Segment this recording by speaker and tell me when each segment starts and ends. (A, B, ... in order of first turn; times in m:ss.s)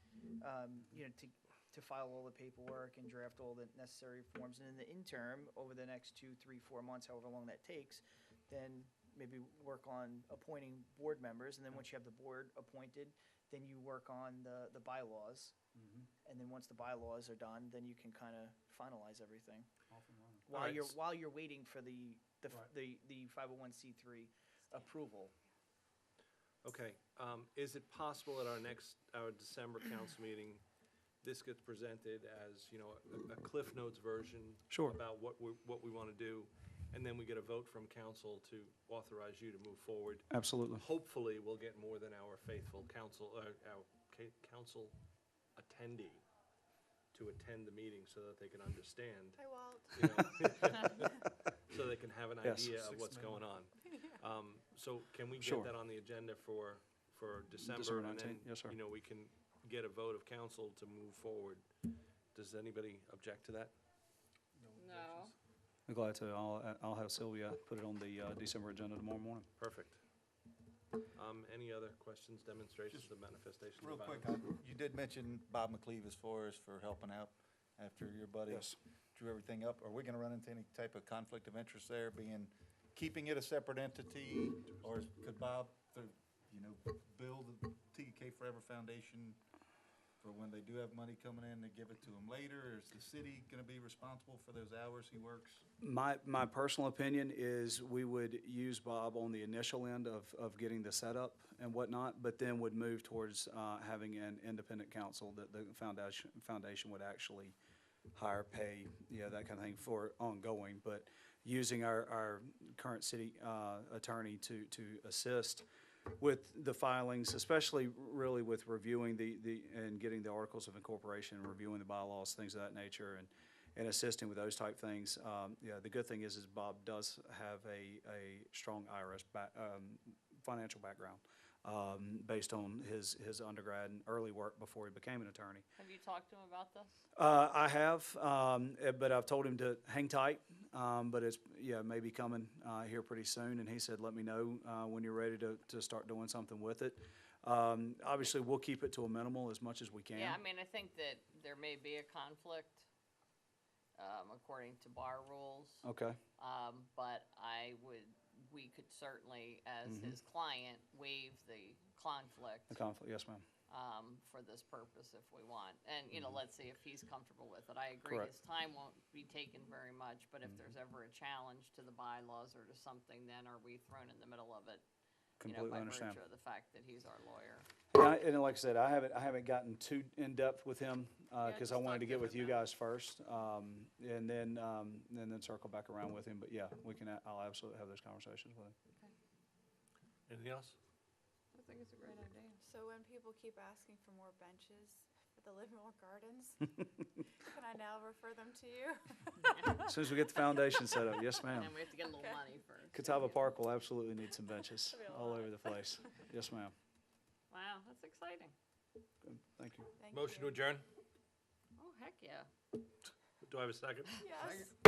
0:00.4-0:15.5 A
0:15.7-0:16.1 B
0:16.2-0:19.7 A
0:19.9-0:20.6 B
0:20.5-0:25.3 A
0:20.5-0:20.9 C
0:26.6-0:30.6 C
0:31.2-0:45.0 C
0:34.7-0:35.0 B
0:40.3-0:40.8 B
0:45.6-0:46.2 C
0:47.1-0:51.2 C
0:49.4-0:50.0 D
0:51.7-1:01.6 C
0:52.4-0:53.2 B
0:55.4-0:55.7 B
0:57.6-0:58.7 B
1:02.3-1:03.7 C
1:04.8-1:05.3 E
1:04.8-1:05.3 C
1:05.9-1:09.5 B
1:09.6-1:10.0 C
1:11.1-1:14.4 C
1:13.8-1:29.4 F
1:18.5-1:18.8 B
1:30.2-1:35.6 F
1:35.8-1:47.6 B
1:48.1-1:55.6 B
1:56.2-2:15.6 B
2:15.8-2:16.9 E
2:17.2-2:30.4 B
2:30.1-2:32.8 E
2:34.0-2:35.8 E
2:35.8-2:36.2 B
2:36.4-2:42.8 E
2:39.8-2:40.2 B
2:42.7-2:43.4 B
2:43.7-2:54.8 E
2:48.0-2:48.3 B
2:55.4-2:56.2 B
2:55.4-2:57.7 E
2:57.9-3:08.7 B
3:01.4-3:02.7 E
3:10.3-3:10.8 C
3:11.5-3:12.6 E
3:12.6-3:16.6 D
3:17.4-3:19.6 D
3:19.4-3:19.9 E
3:19.7-3:21.7 B
3:21.4-3:23.4 E
3:22.9-3:26.7 B
3:25.1-3:25.5 D
3:27.5-3:28.5 E
3:29.2-3:29.9 B
3:30.0-3:30.6 D
3:30.1-3:30.8 C
3:31.8-3:32.5 E
3:33.4-3:34.3 C
3:34.2-3:34.7 D